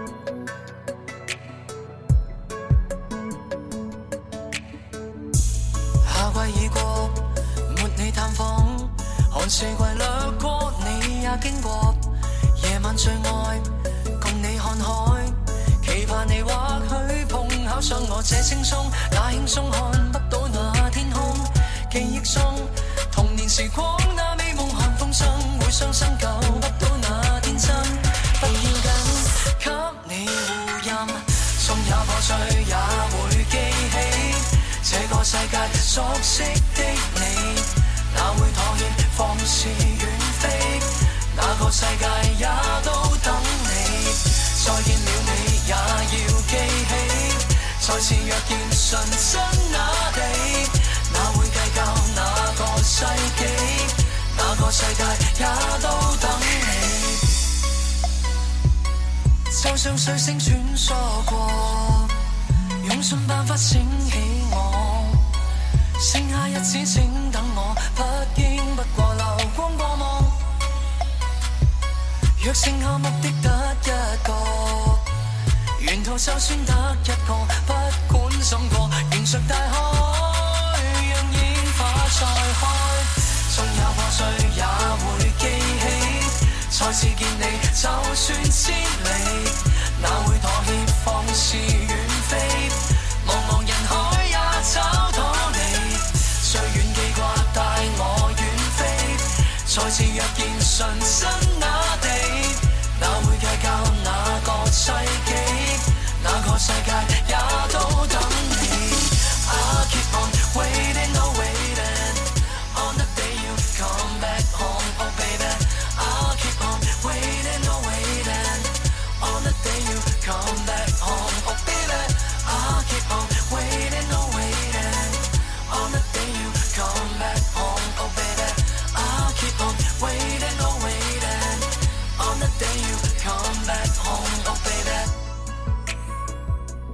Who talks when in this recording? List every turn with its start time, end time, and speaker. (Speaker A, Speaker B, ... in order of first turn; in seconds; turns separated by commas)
Speaker A: 6.0-57.5, Speaker A: 59.5-62.1, Speaker A: 62.8-65.3, Speaker A: 66.0-70.5, Speaker A: 72.4-75.1, Speaker A: 75.8-135.1